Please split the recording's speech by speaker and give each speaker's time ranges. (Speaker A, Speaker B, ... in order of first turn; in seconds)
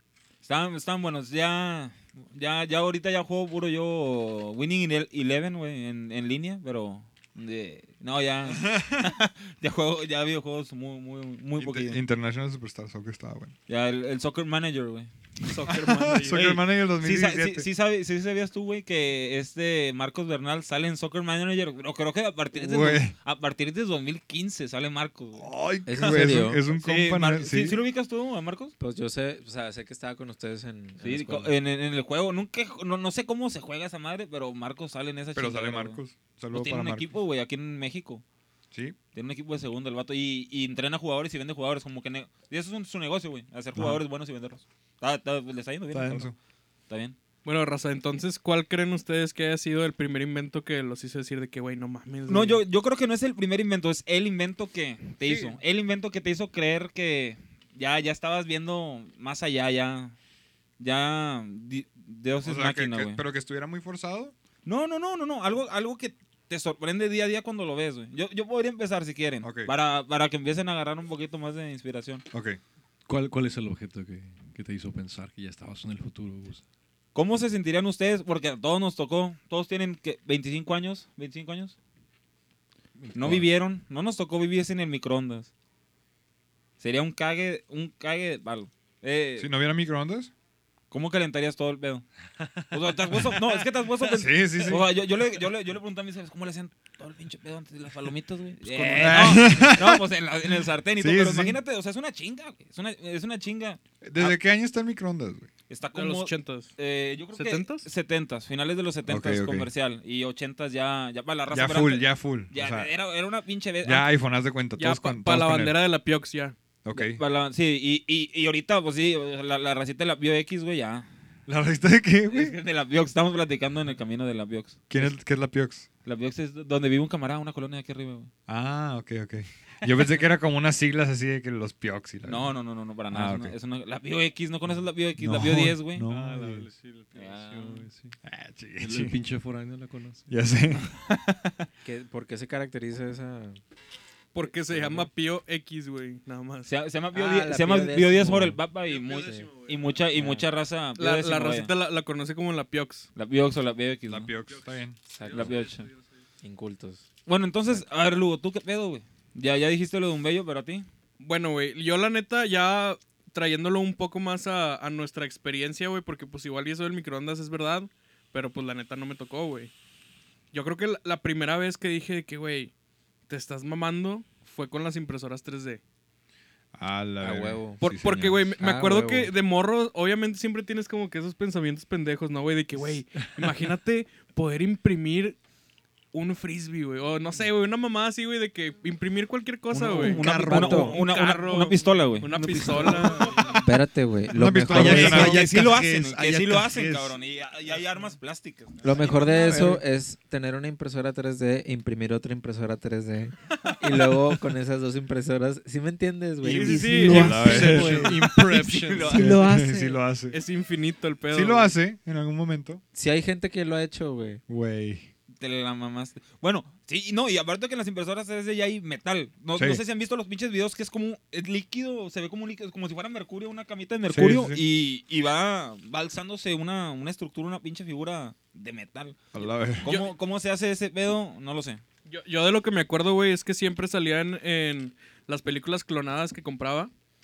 Speaker A: 0.4-12.0, 13.7-15.6, 16.2-28.7, 31.0-36.0, 36.5-38.2, 39.1-46.3, 46.9-47.2, 52.3-60.2, 60.8-63.2, 64.7-72.2, 77.2-81.8, 83.1-85.5, 86.8-89.5, 90.9-92.0, 92.7-104.4, 105.7-114.1, 116.9-121.1, 122.3-125.0, 126.0-128.3, 132.2-136.1, 137.1-137.9, 146.7-151.7, 153.2-154.3, 155.3-155.9, 157.3-160.8, 189.7-193.7, 194.7-199.7, 207.8-209.4, 215.4-231.8
Speaker B: 11.6-13.6, 15.7-17.7, 22.5-23.1, 25.4-27.8, 35.4-37.1, 38.7-39.0, 43.8-44.0, 45.9-46.4, 55.2-55.5, 62.4-64.3, 69.4-69.7, 72.3-72.6, 89.4-90.3, 94.1-94.9, 99.0-101.6, 104.0-105.5, 109.1-109.7, 111.5-112.9, 113.8-115.8, 116.8-117.2, 121.5-122.6, 124.9-125.9, 128.5-132.5, 133.1-133.6, 135.2-136.7, 138.2-139.2, 140.3-141.6, 154.1-155.0, 176.8-178.6, 194.3-195.4, 206.9-208.4, 209.0-210.4, 211.3-212.8, 214.5-215.1, 219.6-219.8, 224.1-224.6, 229.3-229.9
Speaker C: 15.5-16.4, 47.4-52.6, 98.6-99.5, 105.9-106.7, 107.3-107.9, 114.8-116.5, 144.3-146.7, 151.0-153.1, 161.2-169.7, 170.5-172.7, 173.3-175.8, 177.8-185.4, 186.1-193.6, 206.4-207.7, 210.3-211.7, 232.1-236.9
Speaker D: 25.9-26.6, 28.8-31.5, 141.8-143.6, 144.5-145.1, 147.1-149.5, 150.1-150.4, 155.1-155.6, 156.4-157.1, 177.2-177.8, 178.6-179.3, 190.0-190.9, 193.6-195.3, 198.8-208.1, 209.1-210.0, 212.9-214.4
Speaker E: 73.1-76.6, 83.0-83.5, 136.1-138.2, 138.8-140.4, 149.1-149.7, 155.3-155.9, 190.1-191.0, 192.3-193.7, 194.7-197.2, 199.3-199.8, 206.6-209.5